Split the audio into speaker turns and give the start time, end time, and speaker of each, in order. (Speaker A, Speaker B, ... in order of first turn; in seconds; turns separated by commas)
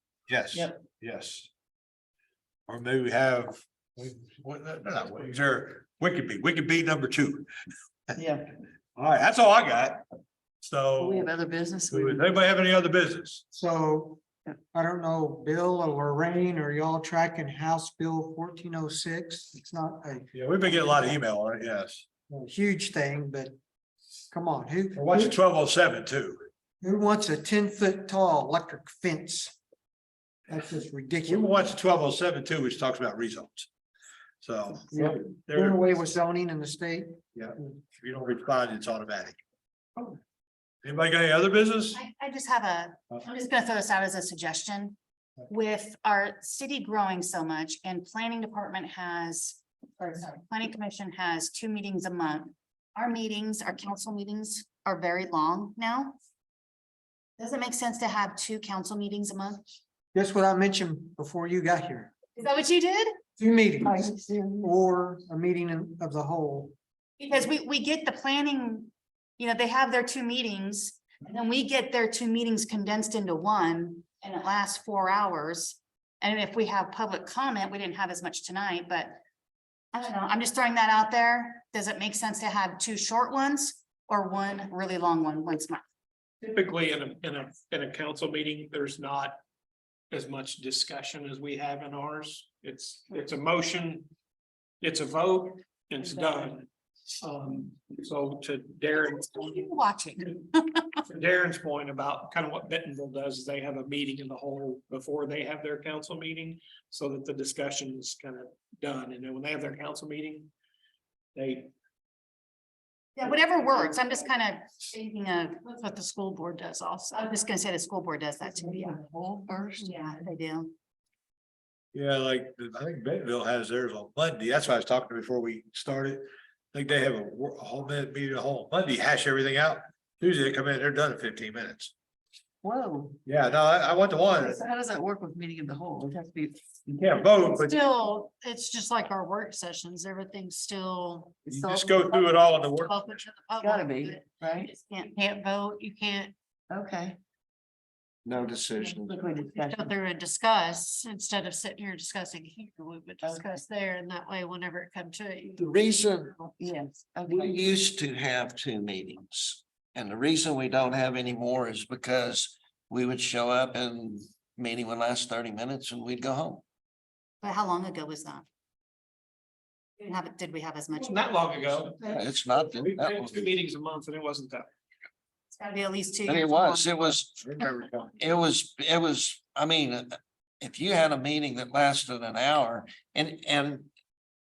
Speaker A: 0.3-1.5, Speaker A: 2.7-7.5, Speaker B: 8.2-8.5, Speaker A: 8.9-10.1, Speaker A: 10.6-11.3, Speaker B: 11.0-12.2, Speaker A: 11.9-13.4, Speaker C: 13.5-14.2, Speaker C: 14.7-20.3, Speaker A: 20.3-22.1, Speaker C: 22.3-23.6, Speaker C: 24.3-25.4, Speaker A: 24.9-26.4, Speaker C: 26.8-29.6, Speaker C: 30.5-31.6, Speaker A: 31.3-33.7, Speaker A: 34.4-35.8, Speaker C: 34.9-37.2, Speaker A: 37.3-39.4, Speaker A: 40.8-42.0, Speaker D: 41.9-45.0, Speaker D: 45.5-56.1, Speaker D: 57.4-59.7, Speaker C: 60.1-62.1, Speaker D: 62.4-63.1, Speaker C: 63.4-66.7, Speaker B: 63.8-64.7, Speaker D: 67.2-79.2, Speaker D: 79.9-85.8, Speaker E: 86.4-89.4, Speaker E: 90.1-94.1, Speaker E: 94.8-96.7, Speaker E: 97.2-99.6, Speaker D: 99.1-101.0, Speaker E: 101.1-110.5, Speaker E: 111.3-111.7, Speaker D: 113.2-119.0, Speaker B: 118.6-120.0, Speaker D: 119.8-120.7, Speaker A: 121.9-131.9, Speaker B: 132.6-133.2, Speaker A: 133.2-134.6, Speaker B: 134.3-136.7, Speaker A: 136.9-137.8, Speaker D: 137.5-141.4, Speaker B: 141.4-142.3, Speaker A: 141.5-143.0, Speaker D: 142.7-146.3, Speaker B: 143.6-144.7, Speaker B: 146.7-147.2, Speaker F: 148.2-149.0, Speaker B: 148.9-149.9, Speaker D: 149.6-156.3, Speaker B: 153.2-153.5, Speaker F: 155.6-156.3, Speaker B: 156.5-157.6, Speaker F: 157.3-166.6, Speaker D: 167.4-168.4, Speaker D: 170.0-171.2, Speaker E: 170.9-174.7, Speaker F: 172.1-173.4, Speaker D: 175.5-176.9, Speaker F: 176.2-177.5, Speaker A: 177.3-178.1, Speaker F: 178.2-183.9